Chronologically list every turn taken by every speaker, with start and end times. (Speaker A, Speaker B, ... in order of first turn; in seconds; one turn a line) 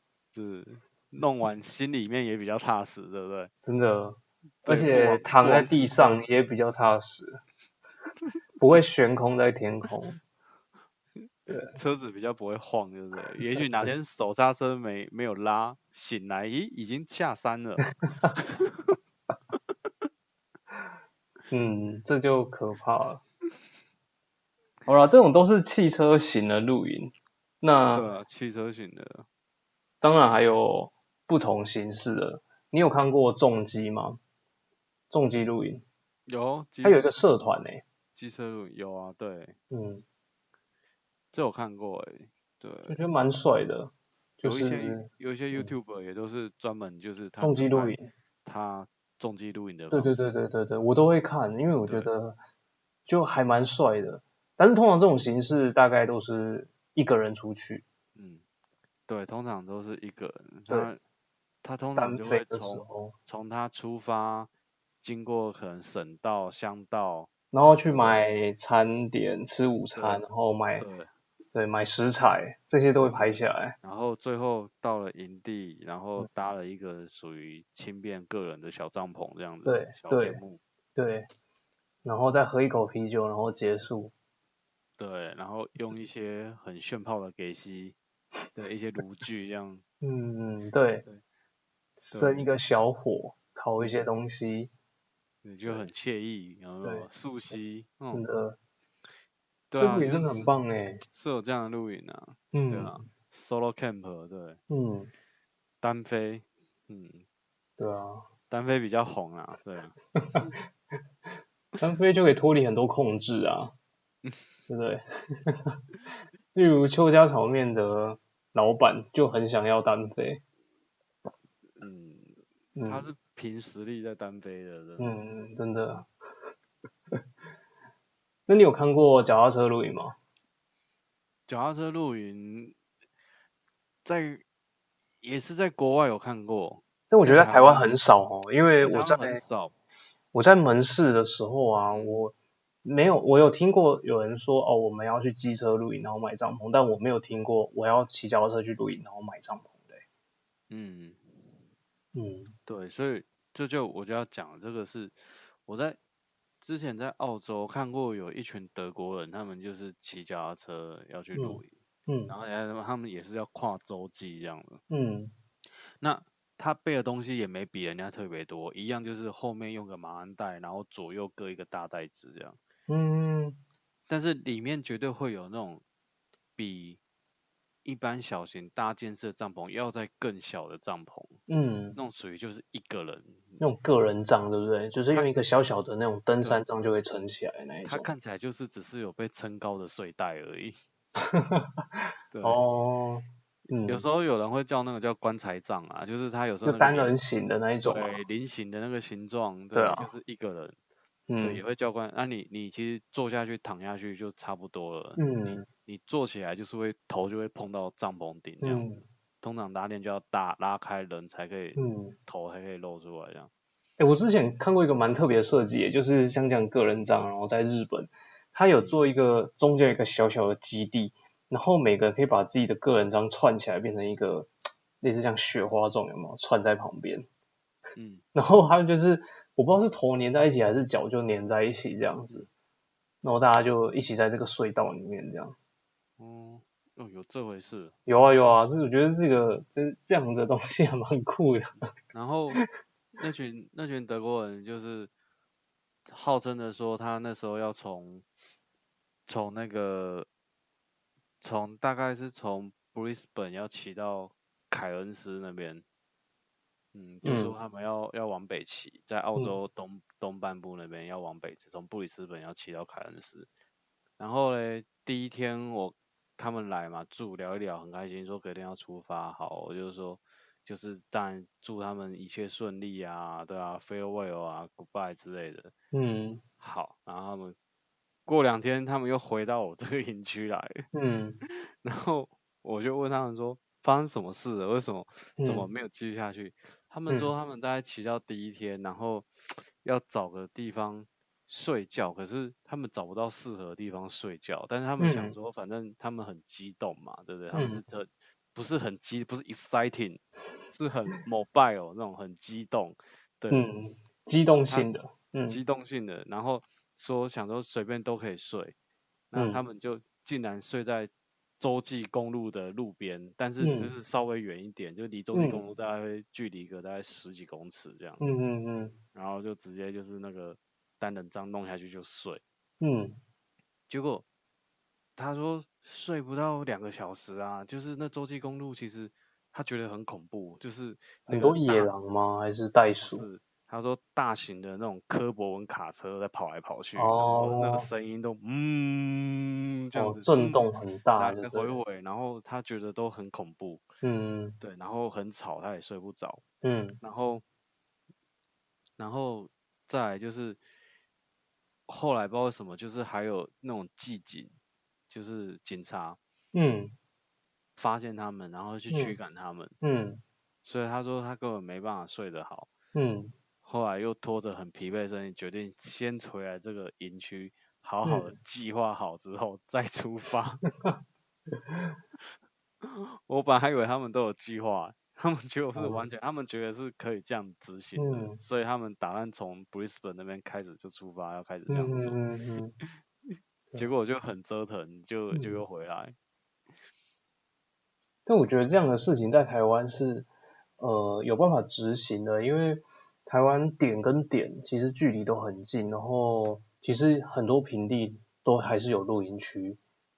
Speaker A: 0.3-3.5
Speaker B: 3.6-7.4
Speaker A: 4.6-6.2
Speaker B: 8.6-10.2
Speaker A: 11.2-18.9
Speaker B: 11.5-11.7
Speaker B: 21.5-23.2
Speaker B: 24.9-28.1
Speaker A: 27.9-29.3
Speaker B: 30.0-34.2
Speaker B: 35.1-35.8
Speaker A: 36.3-37.1
Speaker B: 36.8-37.8
Speaker A: 38.1-39.6
Speaker B: 39.7-40.0
Speaker A: 41.3-43.0
Speaker B: 42.9-45.7
Speaker A: 44.4-50.3
Speaker B: 47.4-48.1
Speaker B: 49.9-52.4
Speaker B: 53.1-57.8
Speaker A: 58.1-58.4
Speaker A: 59.1-61.0
Speaker A: 61.6-64.5
Speaker B: 62.0-63.1
Speaker A: 65.0-67.3
Speaker B: 67.5-70.8
Speaker A: 69.9-70.2
Speaker A: 70.8-71.1
Speaker B: 71.5-73.8
Speaker A: 73.0-80.6
Speaker B: 79.6-80.4
Speaker B: 81.0-81.3
Speaker B: 82.0-84.1
Speaker A: 85.0-88.0
Speaker A: 88.5-89.8
Speaker B: 90.0-91.0
Speaker B: 92.0-94.7
Speaker A: 92.1-92.5
Speaker A: 95.4-98.2
Speaker B: 98.1-98.6
Speaker A: 99.7-100.5
Speaker B: 99.8-101.0
Speaker A: 101.1-104.6
Speaker B: 102.5-103.0
Speaker B: 104.7-105.1
Speaker A: 105.8-107.2
Speaker B: 107.8-108.2
Speaker A: 108.5-110.0
Speaker B: 110.1-110.5
Speaker B: 111.8-113.7
Speaker B: 114.7-115.8
Speaker B: 116.5-120.4
Speaker A: 121.8-125.1
Speaker B: 122.8-123.1
Speaker B: 125.0-126.1
Speaker B: 128.5-130.2
Speaker A: 131.5-132.8
Speaker A: 134.0-134.4
Speaker A: 135.2-137.9
Speaker B: 137.1-139.4
Speaker A: 138.8-139.7
Speaker B: 140.3-150.0
Speaker A: 141.9-142.2
Speaker A: 150.7-151.3
Speaker B: 152.1-152.5
Speaker A: 152.7-156.0
Speaker A: 156.6-161.7
Speaker B: 161.3-162.3
Speaker A: 162.3-164.8
Speaker B: 164.9-165.3
Speaker A: 166.0-172.6
Speaker B: 172.9-173.6
Speaker A: 174.1-175.8
Speaker A: 176.6-177.0
Speaker A: 177.8-181.4
Speaker B: 181.5-182.0
Speaker A: 181.9-183.6
Speaker B: 183.6-188.1
Speaker A: 187.8-190.8
Speaker B: 191.2-194.0
Speaker A: 192.3-192.6
Speaker A: 193.8-197.1
Speaker B: 196.6-198.2
Speaker A: 197.8-200.8
Speaker B: 199.7-200.1
Speaker B: 201.3-201.6
Speaker A: 201.4-213.5
Speaker B: 205.2-205.7
Speaker B: 208.6-209.0
Speaker B: 211.8-212.2
Speaker B: 214.0-224.5
Speaker A: 218.7-219.0
Speaker B: 225.0-227.2
Speaker A: 227.9-228.2
Speaker B: 228.3-232.5
Speaker B: 233.2-235.6
Speaker A: 236.2-237.9
Speaker B: 238.1-241.8
Speaker A: 242.1-242.6
Speaker A: 243.2-245.1
Speaker A: 246.1-248.2
Speaker A: 249.3-250.3
Speaker A: 251.4-255.8
Speaker A: 256.9-263.5
Speaker B: 257.2-257.5
Speaker A: 264.2-275.7
Speaker B: 275.9-276.4
Speaker A: 276.6-277.6
Speaker A: 278.2-280.9
Speaker B: 280.9-281.4
Speaker A: 281.4-289.3
Speaker B: 285.4-285.7
Speaker A: 289.8-303.7
Speaker B: 295.0-295.3
Speaker B: 297.5-297.8
Speaker B: 303.5-305.6
Speaker A: 305.5-308.7
Speaker A: 309.3-318.2
Speaker B: 309.3-309.6
Speaker B: 313.6-313.9
Speaker B: 315.3-315.6
Speaker B: 318.2-318.9
Speaker A: 319.1-322.4
Speaker B: 322.8-323.2
Speaker A: 323.9-324.2
Speaker A: 325.2-331.9
Speaker B: 331.3-333.3
Speaker A: 333.0-340.6
Speaker B: 336.9-337.9
Speaker B: 339.9-341.7
Speaker A: 341.1-343.9
Speaker B: 344.0-344.6
Speaker A: 344.6-346.4
Speaker B: 346.6-347.0
Speaker A: 347.0-347.4
Speaker A: 349.0-350.6
Speaker A: 351.9-354.5
Speaker A: 355.1-356.2
Speaker B: 356.5-356.9
Speaker A: 357.8-359.7
Speaker B: 358.9-359.2
Speaker B: 359.8-360.2
Speaker A: 360.6-362.7
Speaker B: 362.9-363.3
Speaker A: 363.6-370.6
Speaker B: 368.0-368.3
Speaker A: 372.8-382.2
Speaker B: 375.8-376.0
Speaker B: 378.0-378.4
Speaker B: 381.7-382.7
Speaker A: 383.7-386.1
Speaker B: 385.3-385.6
Speaker B: 388.2-390.3
Speaker B: 390.8-399.8